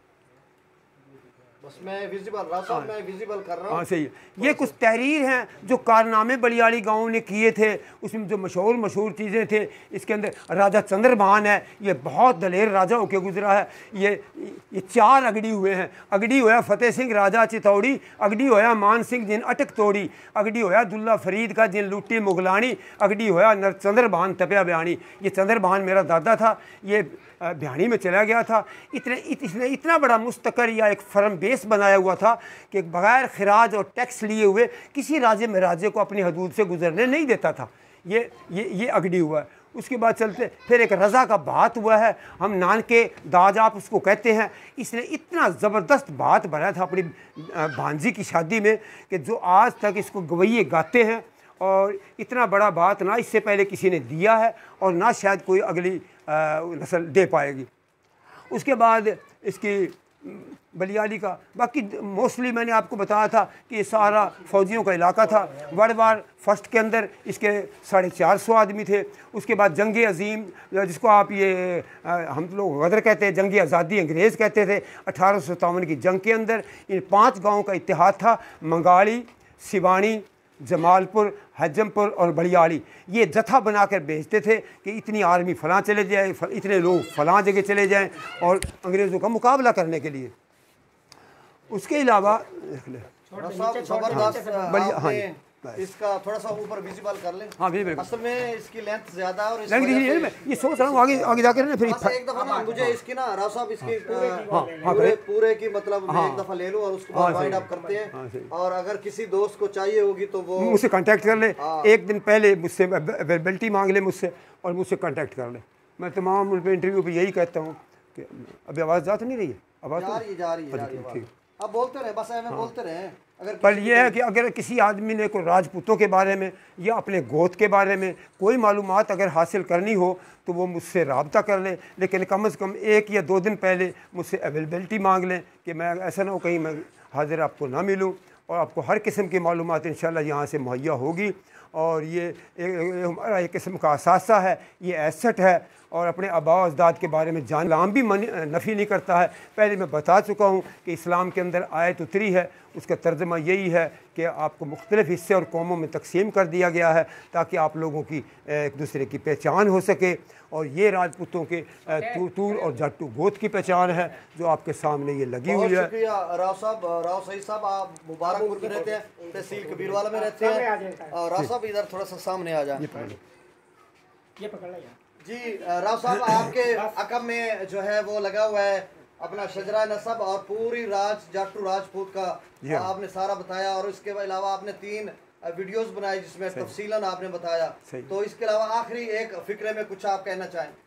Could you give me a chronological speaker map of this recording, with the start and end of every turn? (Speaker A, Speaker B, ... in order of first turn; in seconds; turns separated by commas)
Speaker A: 1.6-3.8, Speaker B: 3.7-57.7, Speaker B: 58.5-90.3, Speaker B: 91.7-93.1, Speaker C: 93.3-94.8, Speaker A: 93.3-100.5, Speaker B: 94.1-95.8, Speaker B: 97.6-98.1, Speaker B: 99.7-102.2, Speaker A: 101.8-110.8, Speaker C: 102.3-102.8, Speaker C: 104.0-105.0, Speaker B: 104.5-105.2, Speaker B: 106.1-106.4, Speaker B: 107.1-108.5, Speaker B: 110.6-121.3, Speaker A: 111.4-111.9, Speaker A: 120.0-124.2, Speaker B: 123.6-165.9, Speaker A: 165.5-173.2, Speaker C: 168.3-171.2, Speaker B: 172.8-173.2, Speaker C: 174.4-174.9, Speaker A: 175.2-190.8, Speaker C: 176.6-176.9, Speaker B: 182.6-182.9